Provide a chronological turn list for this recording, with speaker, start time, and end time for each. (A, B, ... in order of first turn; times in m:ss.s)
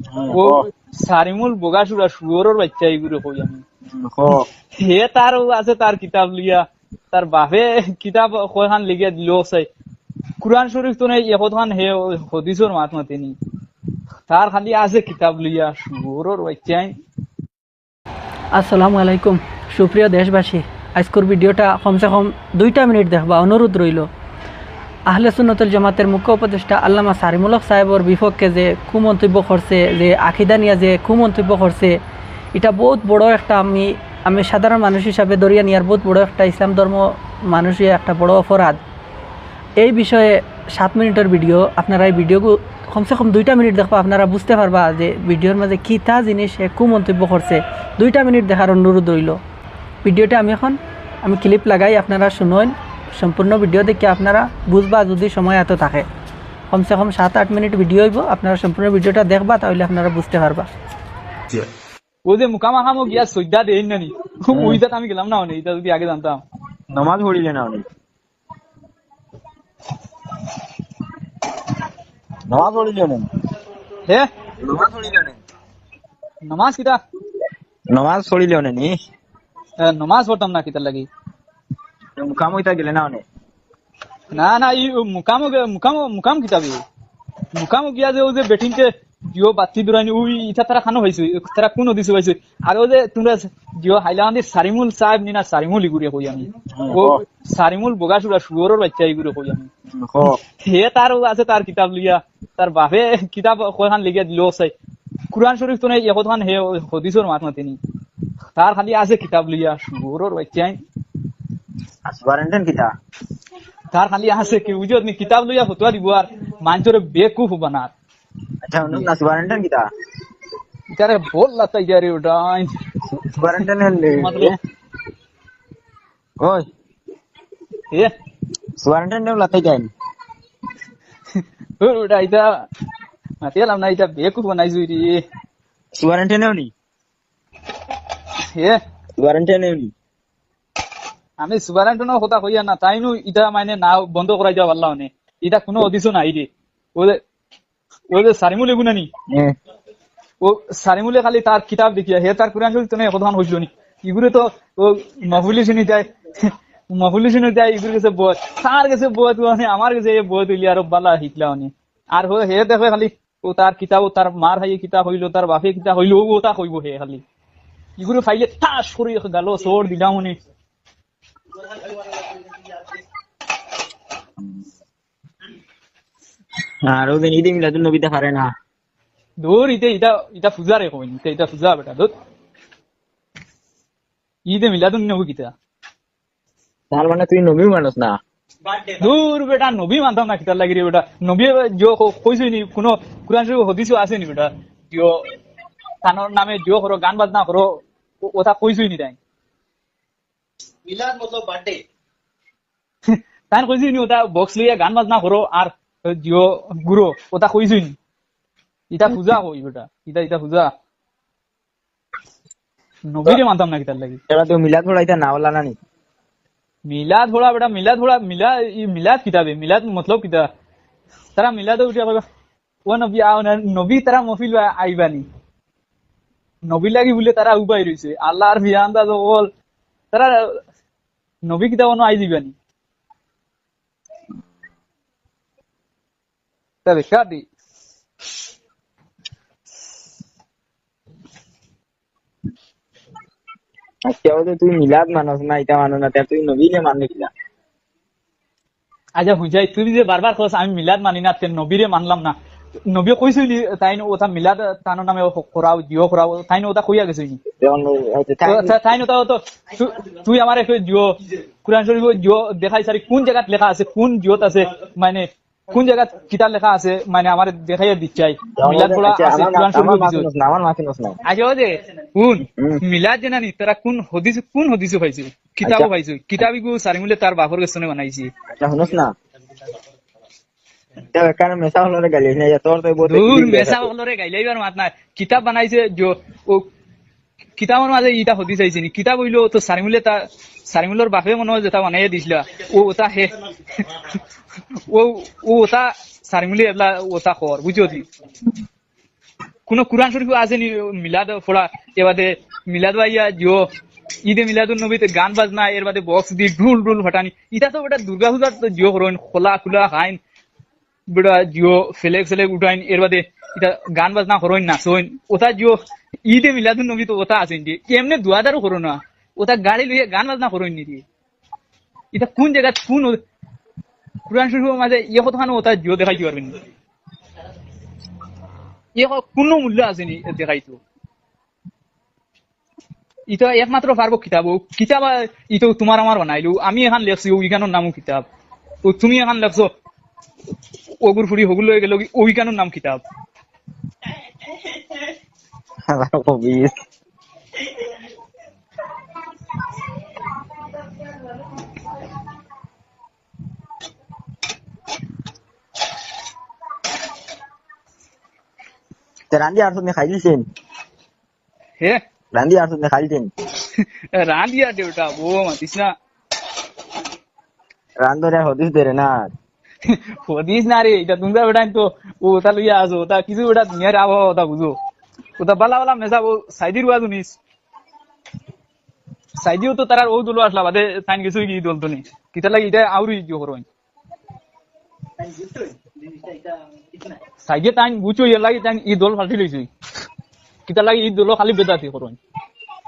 0:00.1-0:00.6 A
0:00.3-0:03.6 B
0:03.9-0:04.5 A
0:04.8-0:09.7 B
0:10.4-0:13.4 B
0:14.3-0:16.9 B
0:18.5-0:24.1 C
0:25.1-0:32.0 C
0:32.5-0:38.8 C
0:39.8-0:49.4 C
0:50.0-0:56.1 C
0:56.7-1:00.7 C
1:02.2-1:06.4 B
1:04.5-1:04.8 A
1:06.9-1:07.8 A
1:12.5-1:13.3 A
1:14.6-1:15.4 A
1:16.4-1:17.0 B
1:17.9-1:18.9 A
1:19.8-1:21.1 B
1:22.2-1:23.2 A
1:24.3-1:26.8 B
1:27.5-1:39.7 B
1:36.7-1:37.2 A
1:39.9-1:40.4 A
1:40.6-1:44.7 B
1:45.3-1:47.8 B
1:48.6-1:50.8 B
1:52.1-1:52.9 A
1:53.9-1:57.9 B
1:58.6-1:59.9 A
2:00.9-2:02.7 B
2:03.1-2:04.5 A
2:04.2-2:04.5 B
2:06.4-2:06.6 A
2:08.8-2:09.9 A
2:11.3-2:12.5 B
2:13.4-2:15.2 B
2:15.9-2:16.7 A
2:18.4-2:18.8 B
2:19.2-2:19.9 A
2:21.4-2:27.2 B
2:28.1-2:29.1 B
2:29.3-2:29.6 A
2:30.4-2:47.2 B
2:48.0-2:50.4 B
2:56.8-2:58.5 A
2:59.4-3:02.1 B
3:04.5-3:05.5 B
3:06.9-3:08.2 A
3:08.9-3:15.2 B
3:16.0-3:19.2 B
3:23.1-3:28.0 B
3:28.9-3:30.7 B
3:33.1-3:34.2 B
3:34.3-3:35.8 A
3:36.8-3:40.5 B
3:41.4-3:42.2 B
3:42.8-3:45.2 B
3:46.6-3:49.5 B
3:50.1-3:50.6 B
3:51.4-3:52.5 B
3:56.8-3:57.4 B
4:04.1-4:07.3 A
4:09.2-4:12.4 B
4:12.9-4:17.4 B
4:17.6-4:18.8 A
4:18.4-4:30.3 B
4:28.6-4:31.2 A
4:31.2-4:38.3 B
4:32.6-4:32.8 A
4:35.6-4:36.4 A
4:38.6-4:39.1 A
4:41.0-4:43.9 A
4:43.0-4:46.6 B
4:47.6-4:54.2 B
4:54.8-4:58.1 B
4:59.7-5:03.6 B
5:04.2-5:10.2 B
5:11.1-5:21.0 B
5:22.1-5:23.2 B
5:24.3-5:26.6 B
5:29.0-5:30.8 B
5:33.3-5:38.2 B
5:38.8-5:39.7 B
5:41.0-5:43.0 B
5:45.9-5:46.8 A
5:59.3-6:00.5 A
6:02.3-6:03.3 A
6:03.7-6:05.9 B
6:08.0-6:09.3 A
6:09.8-6:14.8 B
6:15.4-6:17.4 B
6:19.4-6:23.6 B
6:27.4-6:29.7 B
6:30.6-6:32.2 B